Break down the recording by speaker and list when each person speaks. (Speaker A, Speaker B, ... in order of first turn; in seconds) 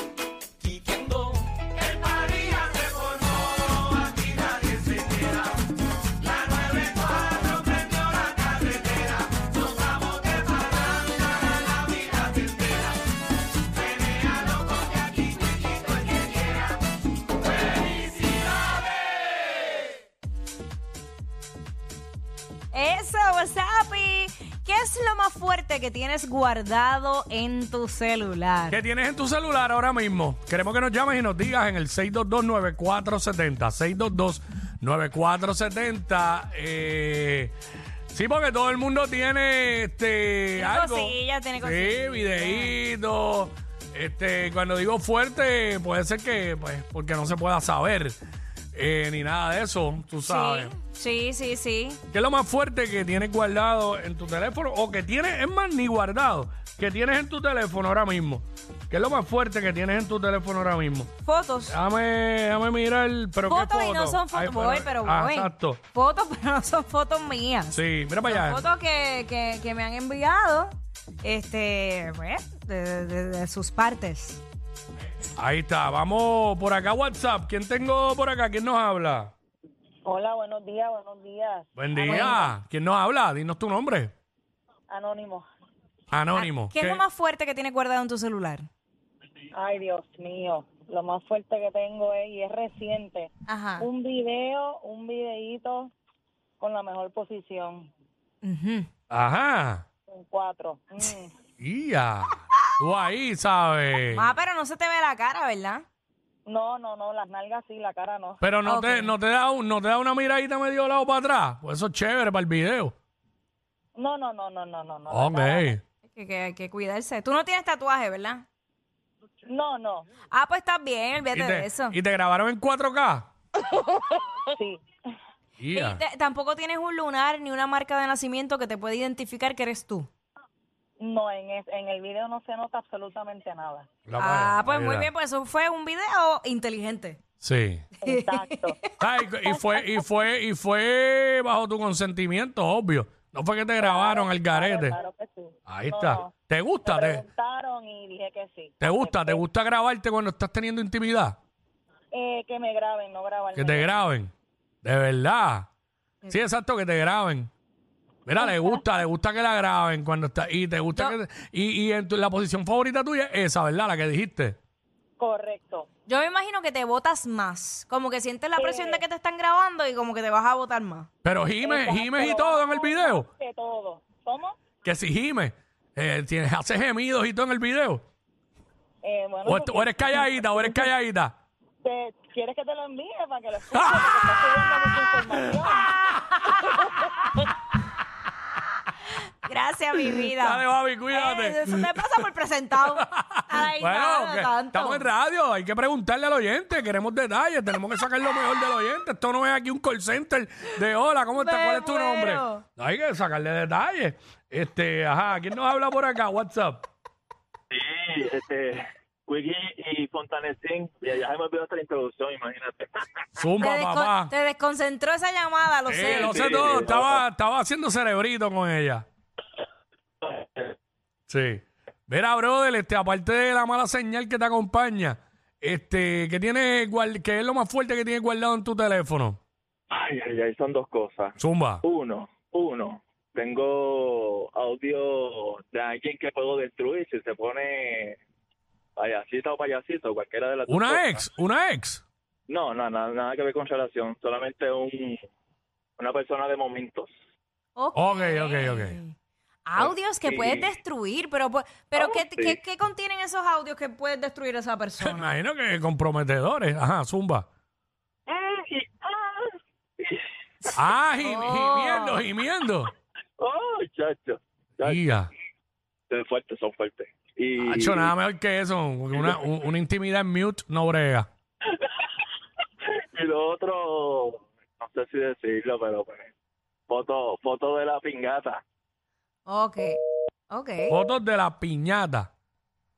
Speaker A: 0.7-1.3, 1.9-3.2, 4.4-5.2
Speaker B: 22.7-28.8, 40.5-42.8, 50.2-52.0, 61.2-61.8, 63.5-70.7, 71.2-74.4, 82.0-82.4, 86.3-88.7, 93.5-93.8, 98.4-98.9, 104.1-105.8, 108.6-109.2, 116.1-118.4, 120.3-122.0, 125.7-130.1, 134.2-137.2, 138.0-139.8, 166.1-171.1, 186.2-187.4, 189.4-195.1, 201.3-202.6, 213.6-216.3, 247.8-249.1, 249.7-255.4, 261.2-262.3, 279.4-280.9
Speaker C: 28.7-37.5, 38.1-48.2, 48.7-50.7, 52.1-61.1, 61.7-65.8, 67.7-68.6, 75.4-79.3, 81.8-84.1, 86.1-87.0, 99.1-99.8, 101.6-104.3, 108.4-112.9, 115.1-115.8, 121.3-123.3, 125.6-126.0, 134.1-135.1, 137.4-137.9, 139.0-144.9, 145.7-147.2, 148.8-151.4, 153.5-154.3, 154.8-155.7, 156.3-157.5, 158.2-164.6, 171.2-173.3, 174.8-178.0, 179.4-181.3, 183.7-184.5, 190.1-192.1, 192.8-206.8, 213.4-214.3, 215.8-219.0, 221.3-229.4, 231.4-231.8, 240.7-242.0, 247.9-249.0, 255.0-257.4, 260.8-262.9, 264.8-265.3, 267.6-271.3, 280.9-282.3
Speaker D: 80.0-82.5, 84.9-85.4, 89.5-95.9, 96.6-97.9, 100.1-101.3, 106.5-108.4, 114.0-115.8, 119.5-120.1, 124.5-124.8, 131.0-133.9, 138.0-138.8, 143.8-146.3, 146.8-149.4, 152.1-154.0, 165.2-165.9, 168.6-169.0, 171.6-174.6, 179.0-180.9, 181.8-185.9
Speaker E: 207.7-213.2, 216.1-217.2, 220.2-220.8, 229.9-238.2, 239.0-241.2, 242.5-245.2, 246.0-247.1, 249.8-250.7, 251.9-252.6, 258.5-260.7, 263.4-265.0, 266.1-268.1, 272.9-276.3, 276.9-278.6